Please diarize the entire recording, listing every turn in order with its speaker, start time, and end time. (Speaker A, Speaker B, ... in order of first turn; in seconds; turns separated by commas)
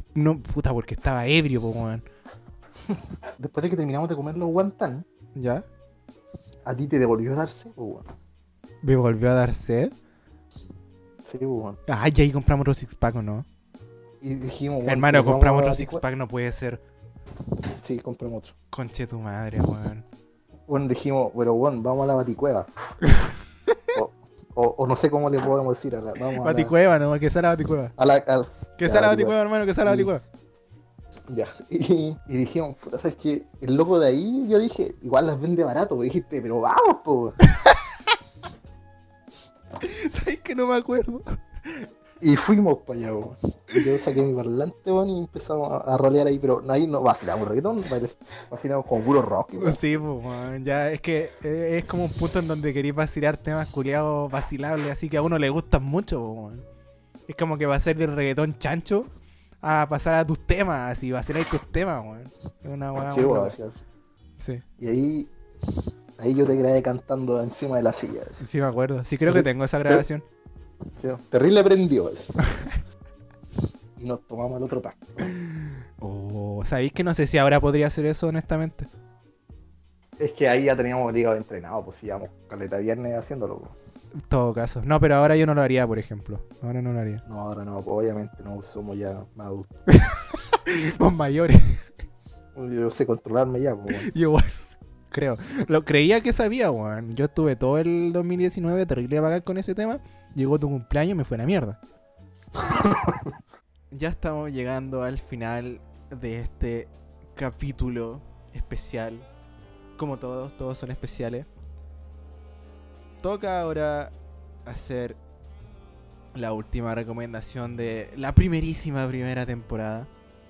Speaker A: 0.1-2.0, Speaker B: 2.8-5.1, Speaker A: 5.3-5.7, Speaker B: 6.7-8.1, Speaker A: 8.8-9.9, Speaker B: 11.2-11.8, Speaker A: 11.9-13.5, Speaker B: 14.2-16.0, Speaker A: 14.9-16.8, Speaker B: 17.7-18.5, Speaker A: 18.7-20.1, Speaker B: 20.7-22.7, Speaker A: 23.1-23.3, Speaker B: 23.9-26.7, Speaker A: 26.4-27.9, Speaker B: 28.0-30.1, Speaker A: 28.8-30.2, Speaker B: 31.3-37.4, Speaker A: 39.8-41.9, Speaker B: 42.2-49.8, Speaker A: 49.6-56.6, Speaker A: 57.3-59.1, Speaker A: 59.6-63.6, Speaker B: 63.0-63.8, Speaker A: 64.4-64.6, Speaker B: 64.8-65.3, Speaker B: 66.2-68.4, Speaker A: 68.4-70.2, Speaker B: 69.3-70.0, Speaker B: 71.0-72.3, Speaker B: 74.0-75.3, Speaker A: 75.2-78.9, Speaker B: 80.2-83.8, Speaker A: 84.2-87.2, Speaker B: 87.3-89.8, Speaker A: 89.9-91.8, Speaker B: 92.5-94.1, Speaker A: 94.0-94.6, Speaker A: 95.1-101.8, Speaker B: 102.5-103.4, Speaker A: 103.9-109.3, Speaker A: 110.0-111.5, Speaker A: 113.2-114.1, Speaker A: 114.7-115.2, Speaker A: 116.3-120.1